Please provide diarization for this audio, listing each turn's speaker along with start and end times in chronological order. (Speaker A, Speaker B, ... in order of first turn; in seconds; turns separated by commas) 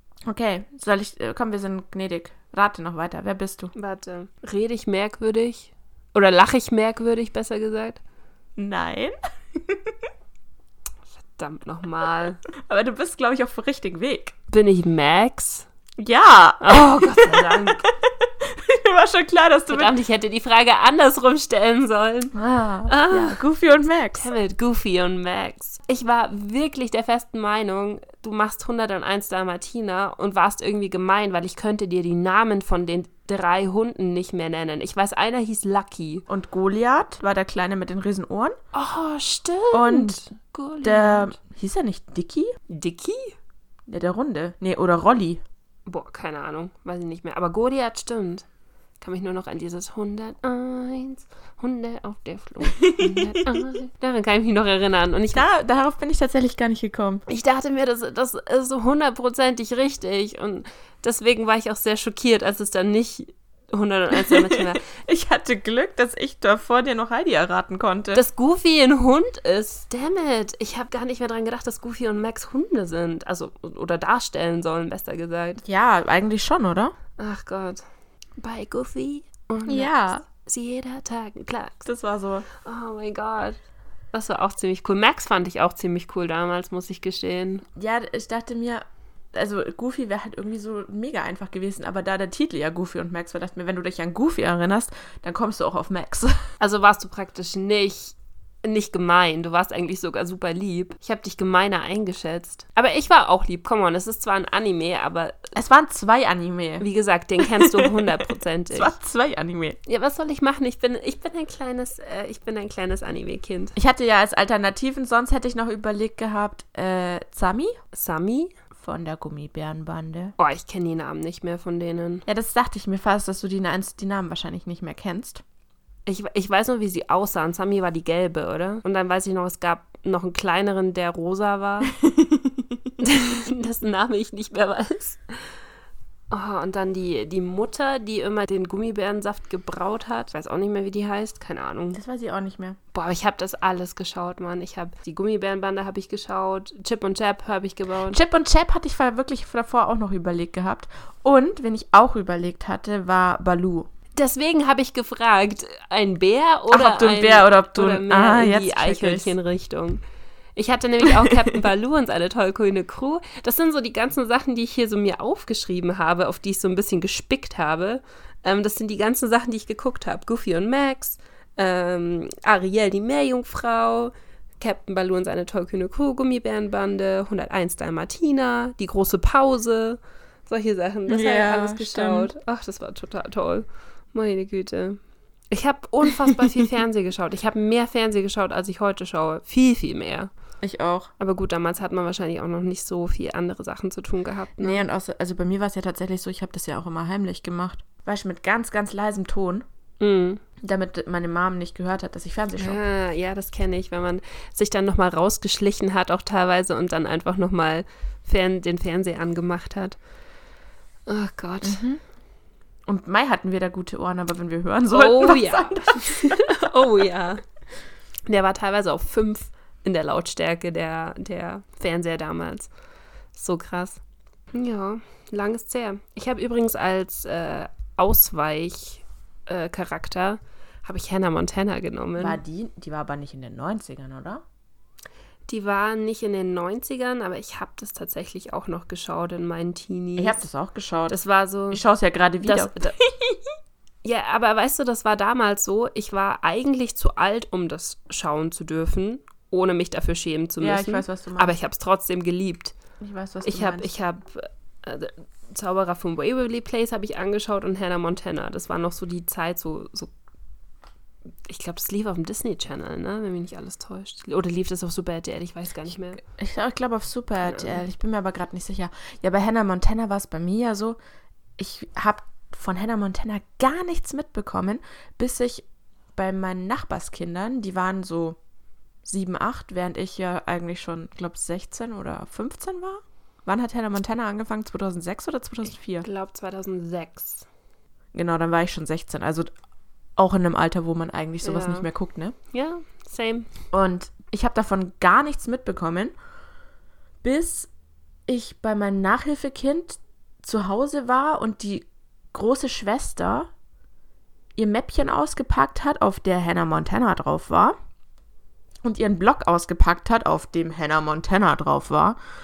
Speaker A: 0.3-3.7, Speaker B: 3.7-8.0, Speaker A: 8.6-9.9, Speaker B: 11.2-12.4, Speaker A: 12.7-14.3, Speaker B: 14.5-15.7, Speaker A: 16.0-20.0, Speaker B: 16.6-17.9, Speaker B: 19.7-22.4, Speaker A: 22.4-24.3, Speaker B: 22.9-23.4, Speaker B: 24.1-36.3, Speaker A: 36.3-38.6, Speaker B: 38.7-41.4, Speaker A: 39.7-40.2, Speaker A: 40.8-42.5, Speaker B: 42.7-43.4, Speaker A: 43.9-45.4, Speaker B: 45.9-48.5, Speaker B: 49.0-55.5, Speaker A: 52.7-53.6, Speaker A: 55.3-57.2, Speaker B: 57.3-64.8, Speaker A: 64.2-68.2, Speaker B: 68.1-75.6, Speaker A: 75.6-76.9, Speaker B: 77.2-77.8, Speaker B: 78.4-81.9, Speaker A: 79.7-80.3, Speaker A: 81.8-82.5, Speaker B: 82.6-83.6, Speaker B: 84.1-87.6, Speaker A: 87.8-96.4, Speaker B: 96.6-105.5, Speaker A: 105.5-106.8, Speaker B: 106.8-108.9, Speaker A: 107.4-109.8, Speaker B: 109.9-113.8, Speaker A: 113.8-117.8, Speaker B: 117.9-118.5, Speaker A: 118.8-120.3, Speaker B: 120.4-122.3, Speaker A: 122.3-125.4, Speaker B: 126.1-131.9, Speaker A: 131.9-132.9, Speaker B: 133.0-135.2, Speaker B: 136.3-142.0, Speaker A: 141.9-142.8, Speaker B: 142.9-148.2, Speaker A: 148.1-153.9, Speaker B: 154.2-160.0, Speaker A: 156.7-159.3, Speaker B: 160.6-185.0, Speaker A: 161.1-161.6, Speaker A: 181.1-182.3, Speaker B: 185.5-190.3, Speaker A: 190.6-191.1, Speaker B: 191.2-194.8, Speaker A: 194.6-199.6, Speaker B: 200.0-200.4, Speaker A: 200.6-202.8, Speaker B: 202.6-210.0, Speaker B: 211.1-211.8, Speaker A: 211.6-212.0, Speaker A: 212.9-216.8, Speaker B: 214.9-217.4, Speaker B: 218.3-222.7, Speaker B: 223.3-224.0, Speaker B: 224.5-232.4, Speaker A: 232.2-234.4, Speaker B: 235.5-240.4, Speaker A: 240.2-241.2, Speaker B: 241.1-241.8, Speaker A: 241.7-243.4, Speaker B: 242.4-243.0, Speaker B: 244.0-252.8, Speaker A: 250.6-251.6, Speaker A: 253.0-253.9, Speaker B: 253.4-260.1, Speaker B: 261.5-266.2, Speaker A: 266.2-271.0, Speaker B: 267.4-267.8, Speaker A: 271.6-275.6, Speaker A: 276.2-278.4, Speaker A: 279.1-286.1, Speaker B: 286.0-287.5, Speaker A: 288.1-289.5, Speaker A: 290.2-292.4, Speaker B: 291.4-291.9, Speaker B: 292.5-293.5, Speaker A: 293.7-296.1, Speaker A: 297.2-297.7, Speaker A: 298.3-303.5, Speaker A: 304.6-307.8, Speaker A: 308.8-312.2